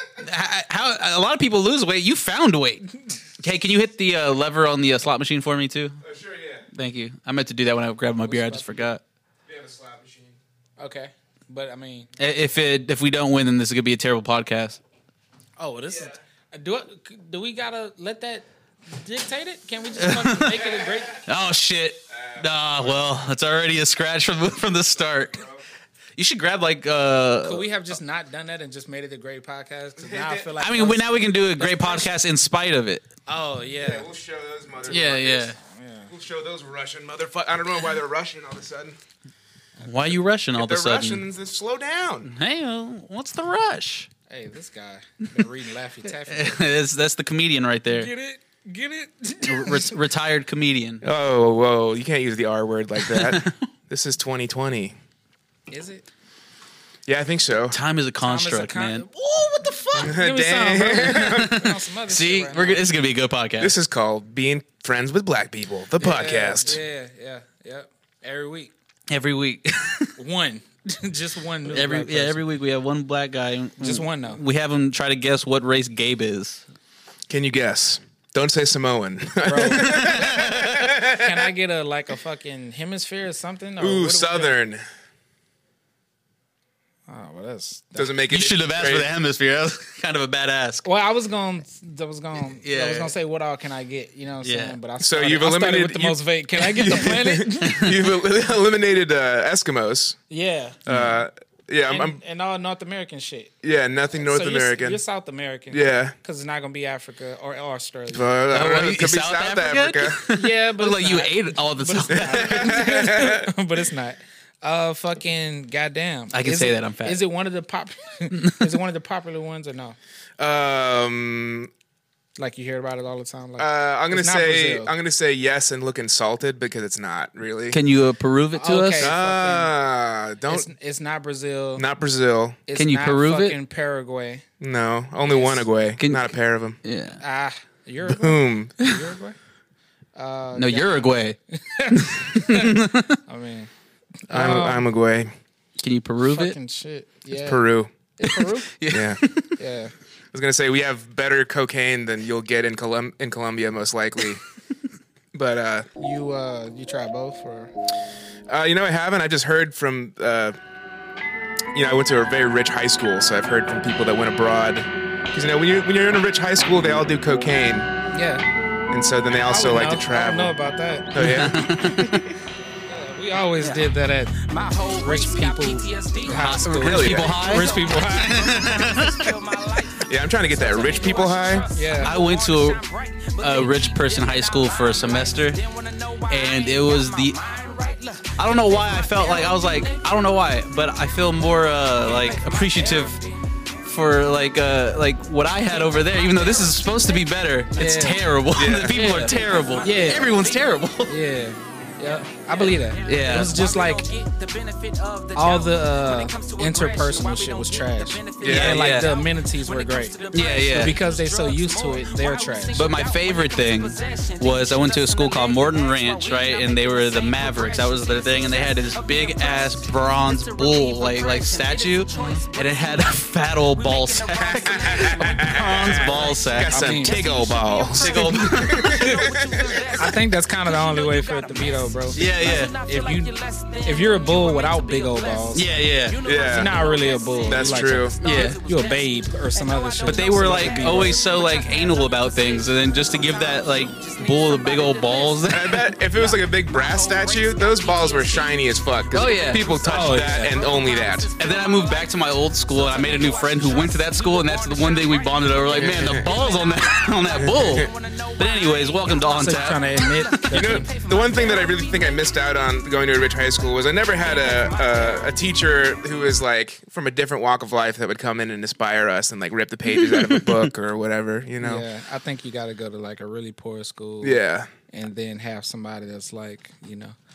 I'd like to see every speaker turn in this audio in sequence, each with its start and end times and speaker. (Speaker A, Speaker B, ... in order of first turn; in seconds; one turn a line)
Speaker A: 0.2-6.0
Speaker B: 6.0-6.7
Speaker A: 6.7-9.0
Speaker C: 8.3-8.9
Speaker B: 9.5-10.4
Speaker C: 10.8-12.1
Speaker A: 12.2-14.8
Speaker C: 15.6-21.2
Speaker B: 15.9-16.2
Speaker A: 20.0-25.4
Speaker B: 20.7-21.1
Speaker B: 22.1-23.0
Speaker B: 25.3-25.6
Speaker A: 26.2-27.7
Speaker C: 27.4-32.1
Speaker B: 30.0-30.5
Speaker A: 30.6-33.1
Speaker C: 33.3-34.1
Speaker B: 33.8-35.5
Speaker A: 34.9-35.6
Speaker C: 34.9-36.1
Speaker B: 36.1-39.0
Speaker A: 39.8-41.2
Speaker B: 40.6-42.3
Speaker A: 42.3-44.1
Speaker C: 44.3-46.7
Speaker A: 46.2-48.1
Speaker C: 47.9-50.0
Speaker A: 49.4-51.0
Speaker B: 51.0-54.9
Speaker A: 53.1-53.6
Speaker C: 55.7-56.1
Speaker B: 57.1-57.8
Speaker A: 57.7-60.1
Speaker C: 58.2-59.1
Speaker C: 59.6-62.9
Speaker B: 60.0-61.6
Speaker A: 61.1-63.8
Speaker B: 63.6-66.8
Speaker C: 66.0-68.7
Speaker A: 69.1-70.2
Speaker C: 70.2-72.4
Speaker A: 71.7-76.6
Speaker C: 73.8-74.4
Speaker B: 77.3-81.5
Speaker C: 79.5-80.5
Speaker A: 79.8-80.8
Speaker C: 81.0-84.6
Speaker B: 83.8-84.8
Speaker C: 87.1-88.2
Speaker B: 88.0-89.1
Speaker A: 88.3-90.9
Speaker C: 90.8-98.0
Speaker A: 92.6-93.2
Speaker A: 94.4-94.8
Speaker B: 95.0-100.2
Speaker A: 97.6-98.0
Speaker C: 100.3-101.0
Speaker B: 100.9-102.2
Speaker C: 101.9-103.5
Speaker B: 103.6-105.0
Speaker C: 104.2-108.3
Speaker B: 105.7-106.2
Speaker B: 108.1-110.2
Speaker A: 108.5-113.0
Speaker C: 110.3-120.0
Speaker B: 112.1-113.5
Speaker A: 116.3-117.2
Speaker A: 118.3-118.8
Speaker B: 120.4-121.7
Speaker C: 122.4-124.9
Speaker B: 123.6-127.8
Speaker A: 127.7-129.1
Speaker C: 128.5-129.7
Speaker B: 129.0-130.7
Speaker C: 130.5-131.8
Speaker B: 131.8-132.6
Speaker C: 132.7-134.4
Speaker A: 132.8-133.6
Speaker B: 134.6-136.8
Speaker C: 135.2-135.7
Speaker A: 136.0-137.2
Speaker C: 137.2-139.4
Speaker B: 138.0-138.8
Speaker C: 140.2-143.7
Speaker A: 140.5-143.2
Speaker C: 144.3-144.8
Speaker B: 144.3-145.3
Speaker A: 145.8-146.6
Speaker C: 146.2-147.7
Speaker B: 147.3-147.9
Speaker C: 148.2-148.7
Speaker A: 148.7-149.6
Speaker B: 148.9-149.2
Speaker C: 149.6-149.9
Speaker B: 150.3-154.4
Speaker B: 155.3-155.9
Speaker C: 156.0-157.7
Speaker B: 158.5-160.6
Speaker B: 161.7-167.9
Speaker C: 168.1-168.5
Speaker B: 168.9-170.6
Speaker C: 169.4-171.2
Speaker B: 171.1-172.3
Speaker A: 171.2-172.2
Speaker C: 172.9-178.7
Speaker D: 173.6-190.2
Speaker A: 176.3-179.3
Speaker B: 176.8-177.5
Speaker B: 180.0-181.7
Speaker C: 181.7-182.2
Speaker A: 182.0-182.8
Speaker A: 183.4-185.6
Speaker A: 186.3-187.7
Speaker A: 188.3-193.2
Speaker D: 192.0-193.3
Speaker A: 193.8-201.2
Speaker D: 196.2-197.1
Speaker C: 197.8-198.2
Speaker B: 198.5-199.3
Speaker D: 198.9-200.8
Speaker C: 199.8-200.3
Speaker C: 201.1-204.1
Speaker D: 202.1-262.4
Speaker A: 203.1-203.6
Speaker C: 205.4-212.9
Speaker B: 208.4-208.8
Speaker A: 208.4-209.1
Speaker A: 210.3-211.0
Speaker A: 212.7-226.8
Speaker B: 224.9-229.7
Speaker C: 226.7-227.3
Speaker A: 227.9-229.1
Speaker C: 228.8-229.2
Speaker C: 230.0-233.3
Speaker A: 232.1-232.8
Speaker C: 233.8-235.8
Speaker A: 235.5-236.2
Speaker B: 236.2-236.8
Speaker C: 236.4-241.3
Speaker B: 237.5-238.2
Speaker A: 238.2-238.6
Speaker A: 240.1-245.9
Speaker B: 245.5-251.3
Speaker A: 249.1-249.7
Speaker C: 249.9-250.6
Speaker A: 251.4-260.5
Speaker B: 255.7-256.3
Speaker B: 257.4-257.9
Speaker C: 259.4-260.9
Speaker B: 260.5-271.9
Speaker D: 264.2-265.2
Speaker A: 269.9-270.7
Speaker C: 271.6-277.1
Speaker B: 274.2-274.7